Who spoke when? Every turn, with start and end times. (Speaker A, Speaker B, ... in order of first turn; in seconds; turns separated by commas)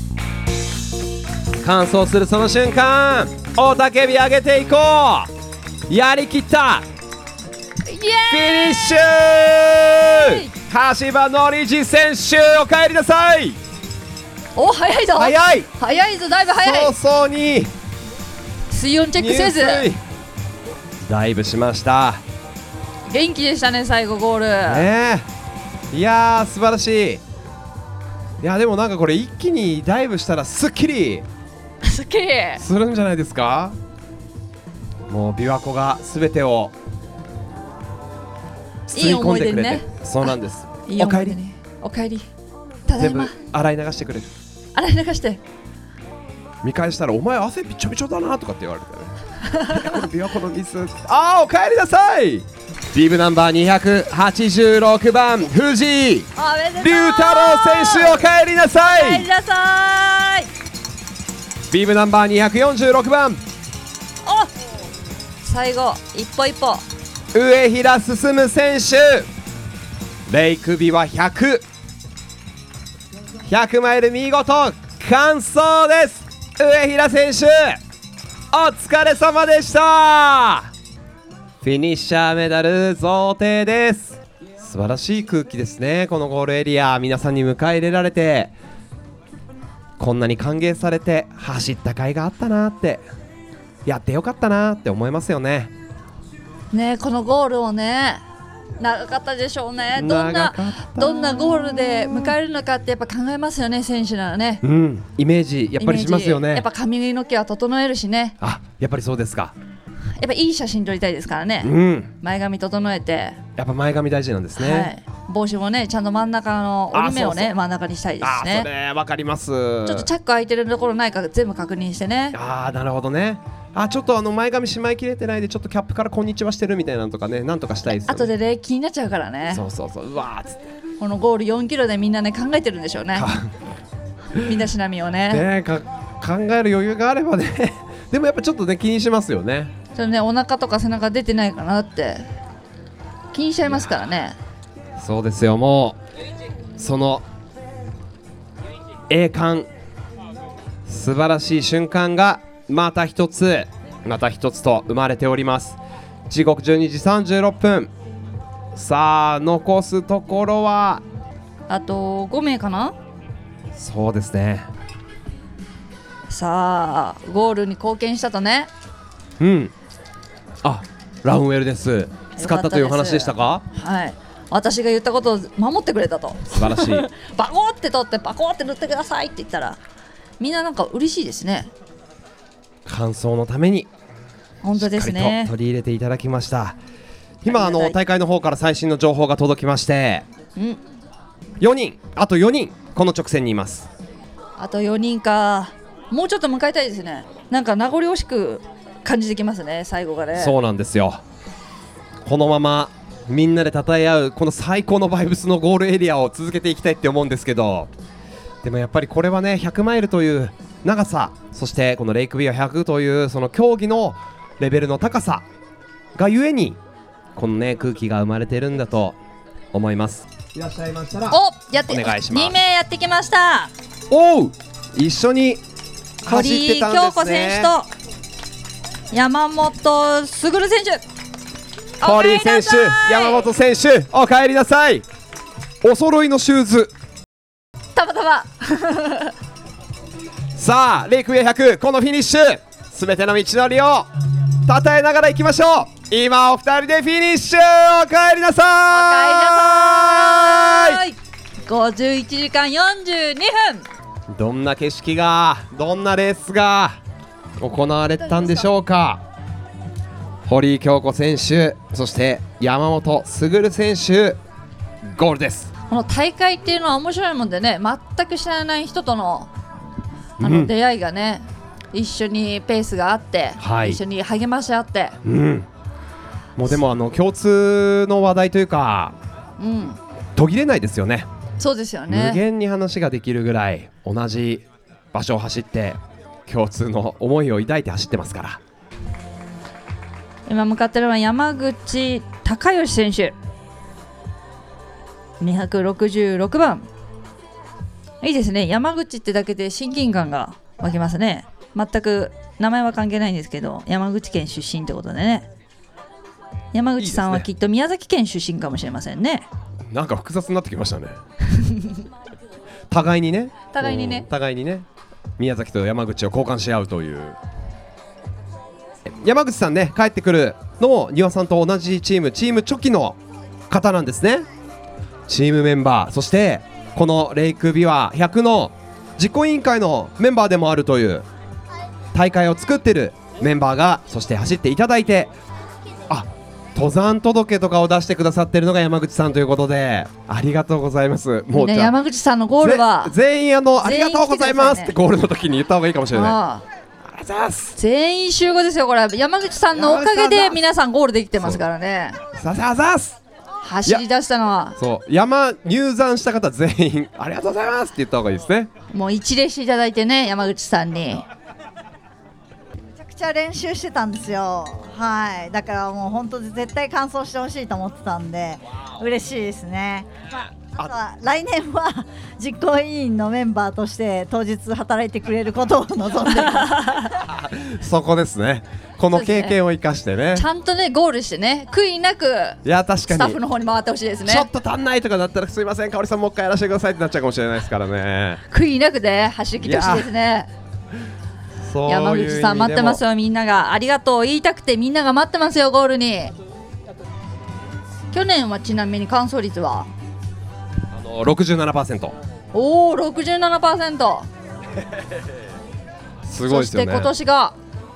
Speaker A: 1.6-5.3, Speaker A: 5.9-6.8, Speaker B: 7.8-9.0, Speaker A: 8.3-13.6, Speaker B: 10.1-10.5, Speaker B: 14.6-16.9, Speaker A: 15.2-15.7, Speaker A: 16.6-17.7, Speaker B: 18.7-19.9, Speaker A: 19.2-20.0, Speaker A: 21.0-22.2, Speaker B: 23.1-24.9, Speaker A: 24.6-25.2, Speaker A: 25.9-27.2, Speaker A: 28.4-31.2, Speaker B: 31.8-32.6, Speaker A: 32.6-33.7, Speaker A: 35.1-36.7, Speaker A: 38.9-41.4, Speaker B: 38.9-40.3, Speaker B: 40.9-42.2, Speaker B: 42.9-43.4, Speaker A: 43.0-44.3, Speaker B: 44.7-45.4, Speaker A: 46.6-49.1, Speaker B: 49.5-50.0, Speaker A: 49.7-59.3, Speaker B: 56.4-60.5, Speaker A: 61.7-63.4, Speaker B: 64.2-64.5, Speaker B: 65.4-66.8, Speaker A: 67.3-69.3, Speaker A: 70.3-71.6, Speaker A: 73.4-77.8, Speaker A: 78.5-80.7, Speaker A: 81.6-88.5, Speaker A: 90.0-93.0, Speaker A: 93.8-95.7, Speaker B: 96.7-98.2, Speaker B: 98.8-104.6, Speaker A: 99.9-101.5, Speaker A: 104.6-106.7, Speaker B: 105.8-108.3, Speaker A: 108.4-109.5, Speaker B: 110.2-113.4, Speaker A: 111.6-112.1, Speaker A: 113.6-114.9, Speaker B: 114.6-118.7, Speaker A: 116.9-117.5, Speaker A: 118.2-120.1, Speaker B: 119.8-122.4, Speaker A: 122.3-128.3, Speaker B: 128.1-129.7, Speaker A: 129.5-130.6, Speaker B: 131.0-133.3, Speaker A: 133.1-133.5, Speaker B: 134.3-135.4, Speaker A: 135.3-139.7, Speaker B: 139.9-142.3, Speaker B: 143.3-144.4, Speaker A: 145.0-146.0, Speaker A: 146.8-147.2, Speaker A: 149.1-149.7, Speaker A: 150.9-157.9, Speaker A: 158.7-161.0, Speaker B: 161.7-162.9, Speaker A: 163.8-164.7, Speaker B: 166.3-168.7, Speaker A: 169.4-169.7, Speaker A: 170.6-173.6, Speaker B: 172.3-179.8, Speaker A: 176.5-177.1, Speaker B: 180.4-181.7, Speaker A: 182.8-183.9, Speaker B: 184.6-185.5, Speaker A: 184.8-186.8, Speaker A: 187.4-190.2, Speaker B: 187.4-187.9, Speaker A: 191.6-193.9, Speaker B: 194.6-200.5, Speaker A: 200.3-201.2, Speaker A: 202.2-207.9, Speaker A: 208.6-215.4, Speaker A: 216.2-216.8, Speaker A: 217.3-219.2, Speaker A: 219.7-222.6, Speaker B: 221.3-223.7, Speaker A: 224.1-225.6, Speaker A: 226.2-227.7, Speaker B: 226.2-227.9, Speaker B: 229.1-231.0, Speaker B: 232.0-233.5, Speaker A: 232.0-235.0, Speaker A: 235.8-236.9, Speaker B: 237.9-239.3, Speaker A: 240.6-244.1, Speaker A: 244.7-251.0, Speaker B: 248.9-253.8, Speaker A: 254.3-257.0, Speaker A: 257.6-259.2, Speaker B: 258.2-258.7, Speaker A: 260.5-264.4, Speaker A: 265.0-265.7, Speaker B: 265.9-269.5, Speaker B: 270.4-275.2, Speaker A: 270.4-270.7, Speaker A: 273.6-274.0, Speaker A: 275.2-275.7, Speaker A: 276.6-279.1, Speaker B: 279.6-280.0, Speaker A: 280.4-281.3, Speaker B: 281.6-282.4, Speaker A: 282.1-288.6, Speaker B: 290.5-293.3, Speaker B: 295.4-296.9, Speaker B: 298.2-305.5, Speaker B: 306.7-309.4, Speaker A: 307.0-307.5, Speaker A: 309.9-311.1, Speaker A: 312.9-314.9, Speaker B: 313.7-314.3, Speaker A: 315.4-317.4, Speaker A: 319.1-323.2, Speaker A: 323.7-324.4, Speaker A: 325.3-331.2, Speaker A: 332.1-335.3, Speaker A: 336.1-342.0, Speaker B: 341.5-343.1, Speaker A: 342.6-346.4, Speaker B: 343.8-344.9, Speaker B: 346.1-346.6, Speaker A: 347.0-347.7, Speaker B: 347.7-352.2, Speaker A: 349.7-350.6, Speaker A: 351.4-351.6, Speaker A: 352.4-353.2, Speaker B: 353.6-354.8, Speaker A: 354.8-358.7, Speaker B: 358.9-361.2, Speaker C: 362.9-376.9, Speaker B: 376.3-377.1, Speaker A: 377.2-380.4, Speaker B: 379.1-379.6, Speaker B: 380.3-384.5, Speaker A: 382.6-383.4, Speaker A: 384.2-388.4, Speaker B: 388.5-390.5, Speaker A: 389.6-390.1, Speaker A: 391.6-393.0, Speaker B: 391.8-396.3, Speaker B: 398.1-399.9, Speaker A: 400.9-402.1, Speaker B: 402.5-404.3, Speaker A: 406.2-407.1, Speaker B: 406.4-407.6